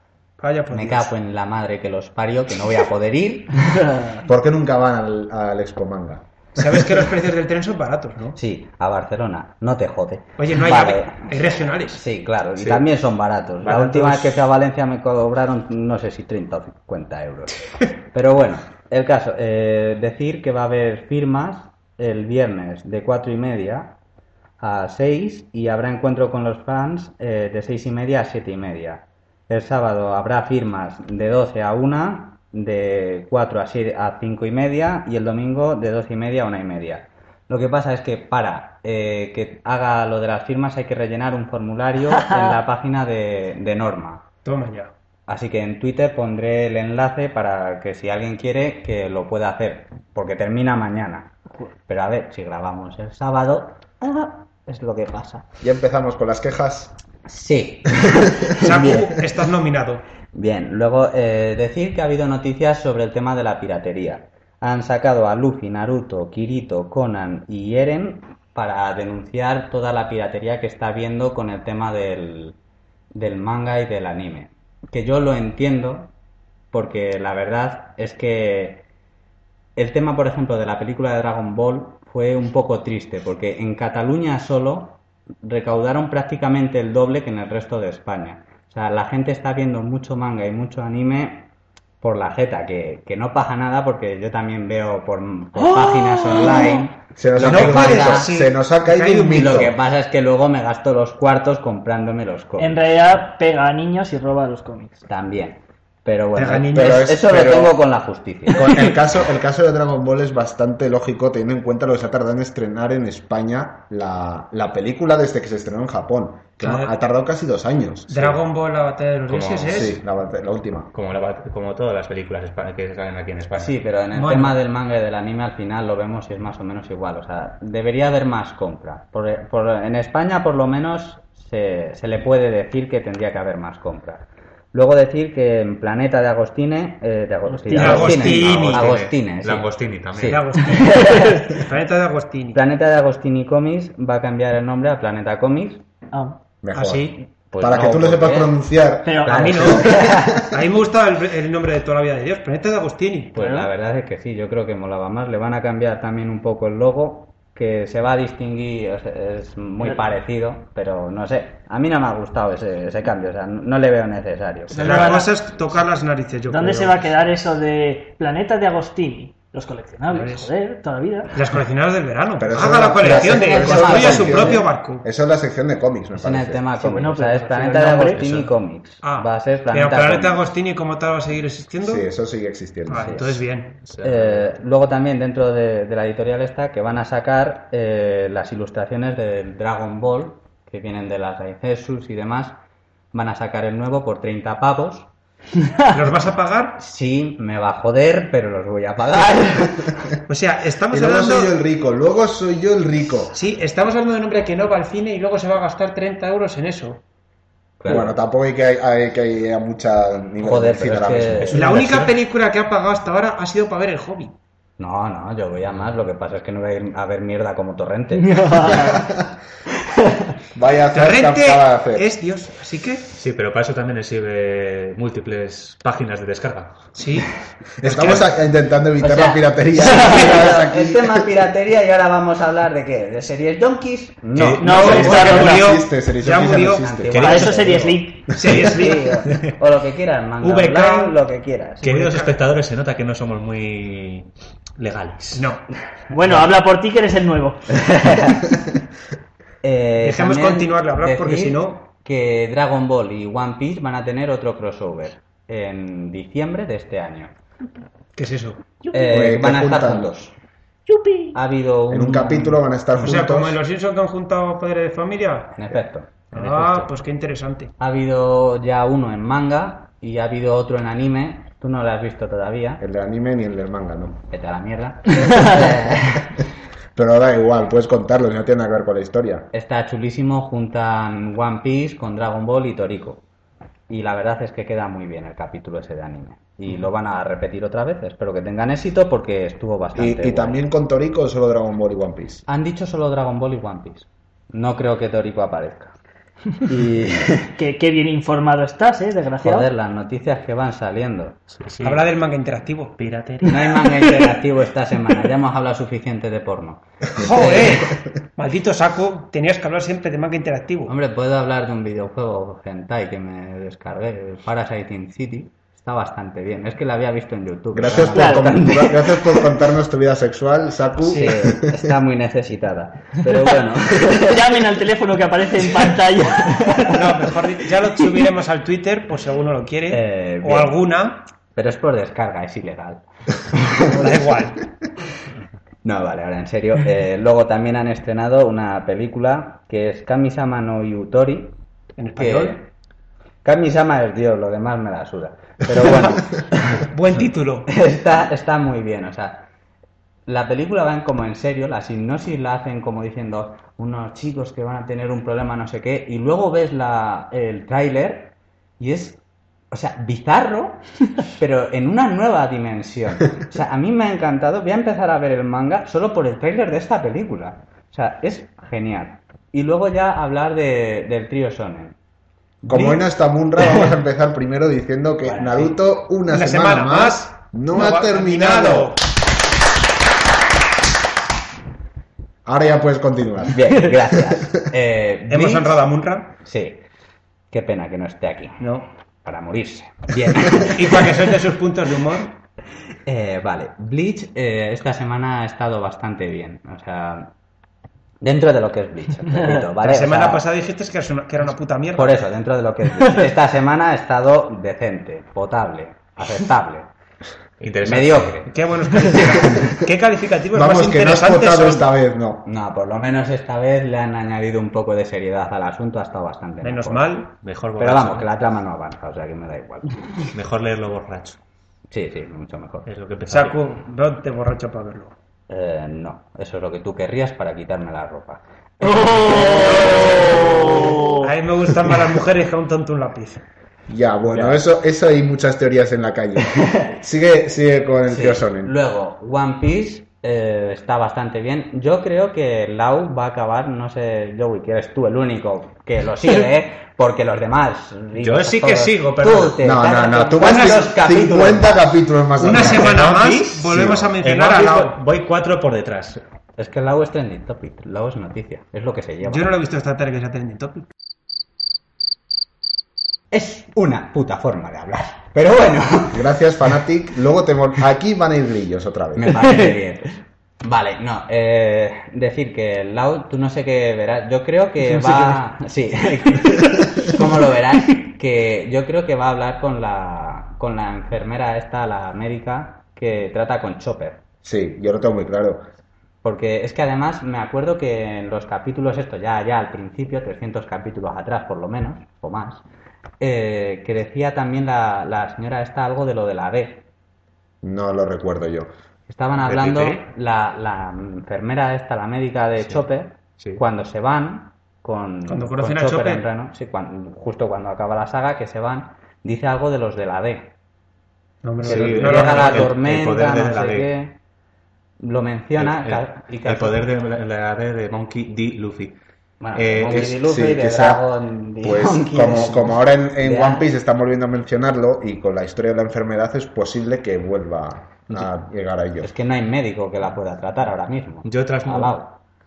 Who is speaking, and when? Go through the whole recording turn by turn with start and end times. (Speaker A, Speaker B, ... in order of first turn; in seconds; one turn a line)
Speaker A: 0.4-1.1
Speaker B: 0.7-3.9
Speaker C: 3.9-4.2
Speaker D: 4.2-6.8
Speaker A: 6.6-8.4
Speaker B: 8.4-23.9
Speaker A: 10.4-12.0
Speaker E: 12.6-12.8
Speaker E: 13.6-14.4
Speaker B: 24.6-44.2
Speaker C: 42.1-42.5
Speaker A: 44.4-44.9
Speaker B: 45.3-51.3
Speaker B: 51.9-55.5
Speaker D: 55.6-56.9
Speaker B: 57.2-59.1
Speaker A: 58.5-60.0
Speaker B: 60.3-72.6
Speaker B: 73.1-76.1
Speaker B: 76.7-78.8
Speaker B: 79.8-91.5
Speaker B: 92.0-98.3
Speaker C: 95.7-96.8
Speaker D: 97.2-99.8
Speaker A: 97.4-99.7
Speaker B: 99.2-102.8
Speaker C: 102.6-105.0
Speaker B: 105.1-108.8
Speaker A: 106.3-107.1
Speaker D: 106.7-107.8
Speaker D: 108.5-118.4
Speaker A: 116.6-116.9
Speaker A: 118.1-119.9
Speaker E: 119.3-120.0
Speaker D: 119.7-120.9
Speaker E: 120.9-123.7
Speaker B: 123.5-141.5
Speaker A: 124.1-124.6
Speaker C: 137.5-138.1
Speaker A: 137.7-138.9
Speaker E: 137.7-140.4
Speaker A: 140.2-142.6
Speaker C: 140.8-141.5
Speaker B: 142.5-145.8
Speaker C: 146.1-146.4
Speaker D: 146.6-150.5
Speaker A: 146.8-147.2
Speaker B: 147.5-148.6
Speaker C: 149.0-150.1
Speaker B: 149.2-150.4
Speaker A: 149.4-153.4
Speaker B: 153.3-165.1
Speaker C: 153.4-153.7
Speaker C: 164.7-165.3
Speaker A: 164.8-167.0
Speaker C: 166.5-171.4
Speaker A: 170.1-170.5
Speaker A: 171.3-175.0
Speaker D: 172.4-176.6
Speaker C: 173.1-174.0
Speaker B: 173.4-174.6
Speaker B: 176.1-180.4
Speaker C: 176.8-178.4
Speaker E: 178.1-178.5
Speaker A: 179.0-182.1
Speaker D: 181.8-183.4
Speaker A: 182.9-183.8
Speaker B: 182.9-183.3
Speaker E: 183.8-184.5
Speaker B: 184.0-192.6
Speaker B: 193.1-195.1
Speaker A: 195.9-196.8
Speaker B: 196.8-199.9
Speaker A: 200.3-201.5
Speaker D: 200.9-203.4
Speaker A: 203.3-207.0
Speaker B: 207.8-208.2
Speaker D: 207.9-211.7
Speaker B: 210.4-211.8
Speaker E: 211.4-212.1
Speaker A: 211.5-214.3
Speaker B: 214.8-218.9
Speaker C: 218.1-219.1
Speaker D: 218.8-219.1
Speaker D: 220.5-222.1
Speaker A: 220.9-223.1
Speaker E: 223.1-226.8
Speaker A: 226.9-228.2
Speaker D: 227.8-231.3
Speaker B: 229.0-235.5
Speaker E: 234.3-235.4
Speaker C: 234.6-235.7
Speaker D: 234.8-237.3
Speaker A: 234.9-236.9
Speaker B: 236.8-241.8
Speaker E: 237.1-237.6
Speaker C: 237.2-238.3
Speaker A: 238.3-239.1
Speaker A: 240.4-241.2
Speaker A: 241.8-242.4
Speaker E: 241.8-245.5
Speaker A: 245.3-245.7
Speaker C: 246.1-247.8
Speaker B: 247.7-248.5
Speaker B: 249.6-257.3
Speaker A: 250.0-251.8
Speaker A: 258.1-258.6
Speaker C: 258.8-259.2
Speaker B: 258.9-260.3
Speaker D: 259.1-260.1
Speaker C: 260.9-261.4
Speaker B: 261.3-262.6
Speaker D: 261.9-263.6
Speaker A: 262.9-265.5
Speaker B: 265.5-266.1
Speaker A: 266.3-267.7
Speaker E: 266.3-266.9
Speaker B: 267.8-272.8
Speaker D: 272.8-274.2
Speaker B: 274.3-276.4
Speaker D: 276.0-276.4
Speaker D: 276.9-279.5
Speaker B: 279.5-283.2
Speaker B: 283.9-290.6
Speaker D: 289.9-292.4
Speaker B: 292.5-295.9
Speaker B: 296.6-297.5
Speaker C: 297.6-299.7
Speaker B: 299.4-301.4
Speaker E: 301.6-302.1
Speaker A: 301.8-302.9
Speaker E: 303.0-303.7
Speaker B: 303.5-307.9
Speaker A: 307.2-310.9
Speaker B: 310.9-319.4
Speaker D: 317.7-321.9
Speaker C: 318.1-318.5
Speaker B: 321.0-324.6
Speaker A: 321.0-321.4
Speaker C: 324.1-327.1
Speaker A: 326.9-331.2
Speaker B: 329.9-330.8
Speaker B: 331.5-334.3
Speaker A: 333.9-334.6
Speaker B: 335.8-341.5
Speaker A: 342.0-342.6
Speaker B: 342.1-342.7
Speaker B: 343.4-346.9
Speaker A: 346.8-347.7
Speaker B: 347.7-349.4
Speaker B: 350.3-359.2
Speaker B: 359.7-372.0
Speaker D: 372.6-379.0
Speaker A: 372.7-373.0
Speaker B: 375.2-375.8
Speaker A: 376.3-379.0
Speaker D: 382.4-384.2
Speaker B: 383.5-385.8
Speaker A: 385.3-386.3
Speaker B: 386.4-386.8
Speaker B: 387.5-388.6
Speaker A: 388.6-388.9
Speaker B: 389.2-391.1
Speaker A: 390.7-392.3
Speaker B: 393.1-397.3
Speaker B: 398.2-400.4
Speaker A: 399.8-402.2
Speaker B: 401.9-406.9
Speaker E: 407.6-408.5
Speaker B: 407.8-408.5
Speaker A: 408.5-411.9
Speaker D: 410.5-412.4
Speaker B: 412.4-417.2
Speaker A: 416.6-417.3
Speaker E: 417.4-418.3
Speaker B: 417.8-420.0
Speaker E: 420.3-421.4
Speaker B: 421.9-422.9
Speaker E: 422.9-423.6
Speaker A: 423.3-425.1
Speaker B: 425.5-431.0
Speaker C: 429.0-431.3
Speaker A: 431.2-433.4
Speaker D: 433.9-438.7
Speaker B: 438.1-452.0
Speaker E: 448.1-449.6
Speaker D: 449.6-452.8
Speaker A: 450.4-450.9
Speaker A: 452.4-455.0
Speaker E: 452.5-456.2
Speaker D: 453.7-454.1
Speaker B: 456.6-459.5
Speaker A: 459.2-460.9
Speaker B: 463.3-466.3
Speaker D: 466.1-469.6
Speaker B: 469.1-484.2
Speaker C: 474.9-475.4
Speaker D: 484.4-485.6
Speaker B: 486.2-492.6
Speaker B: 493.2-496.9
Speaker D: 497.6-498.7
Speaker B: 499.1-510.5
Speaker E: 499.4-500.1
Speaker A: 505.2-506.2
Speaker A: 511.4-512.7
Speaker E: 511.6-513.9
Speaker B: 511.6-514.2
Speaker B: 515.0-516.9
Speaker E: 515.6-519.0
Speaker B: 519.4-523.7
Speaker E: 519.5-520.1
Speaker D: 519.9-521.0
Speaker D: 521.6-529.1
Speaker B: 529.0-532.2
Speaker E: 531.2-532.0